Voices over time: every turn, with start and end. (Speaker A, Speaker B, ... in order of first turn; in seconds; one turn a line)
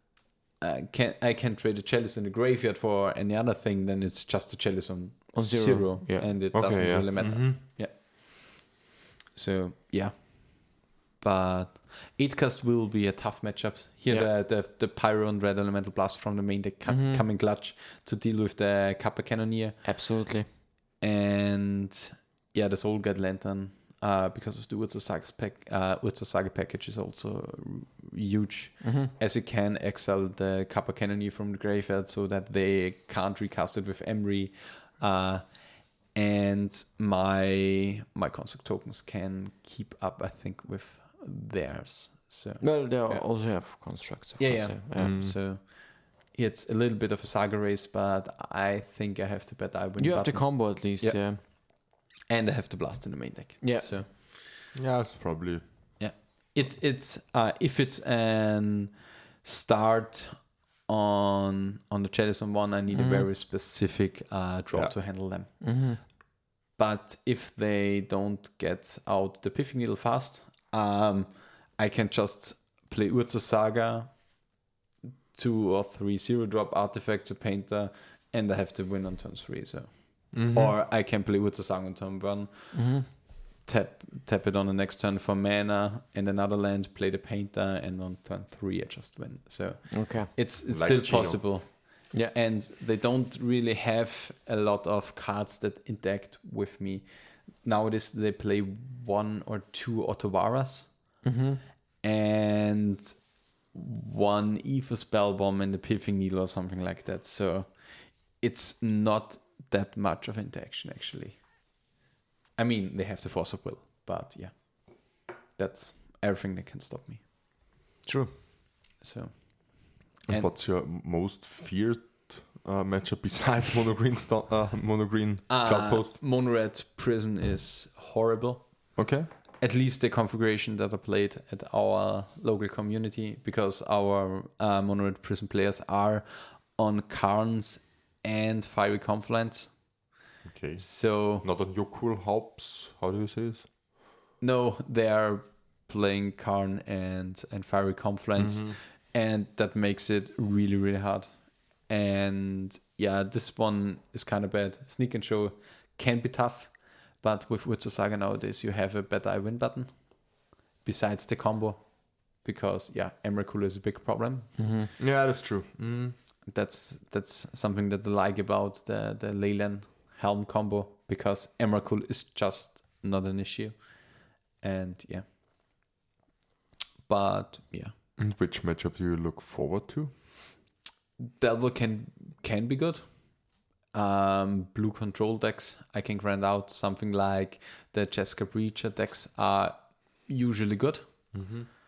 Speaker A: 0.6-8.0
Speaker B: 5.3-6.3
Speaker C: 6.5-7.6
Speaker A: 9.3-19.8
Speaker B: 16.9-17.2
Speaker B: 19.8-20.5
Speaker A: 21.0-35.5
Speaker B: 28.8-29.1
Speaker A: 36.1-43.2
Speaker B: 42.6-45.2
Speaker A: 44.4-51.2
Speaker C: 45.0-45.4
Speaker B: 50.0-51.4
Speaker A: 51.9-54.4
Speaker B: 53.6-53.9
Speaker C: 54.7-55.6
Speaker A: 56.0-58.9
Speaker A: 59.4-65.5
Speaker B: 62.9-63.3
Speaker B: 65.6-66.0
Speaker A: 66.8-74.2
Speaker A: 75.3-82.8
Speaker C: 80.3-80.7
Speaker B: 82.7-83.1
Speaker A: 83.6-97.1
Speaker B: 89.9-90.3
Speaker C: 90.7-91.5
Speaker A: 97.6-100.9
Speaker B: 101.2-101.6
Speaker A: 102.0-103.2
Speaker A: 103.7-107.7
Speaker A: 108.3-111.4
Speaker A: 112.6-117.2
Speaker A: 119.0-120.5
Speaker C: 120.3-126.2
Speaker A: 125.5-129.0
Speaker C: 129.0-129.3
Speaker A: 129.6-139.8
Speaker C: 140.4-143.7
Speaker A: 140.8-141.4
Speaker A: 144.4-151.3
Speaker C: 148.4-148.8
Speaker A: 151.8-160.1
Speaker A: 160.8-164.6
Speaker B: 164.6-164.9
Speaker C: 165.0-166.2
Speaker A: 166.5-174.1
Speaker A: 174.6-175.2
Speaker A: 177.1-177.9
Speaker C: 178.2-180.1
Speaker A: 181.2-183.0
Speaker A: 183.9-191.0
Speaker C: 191.3-191.7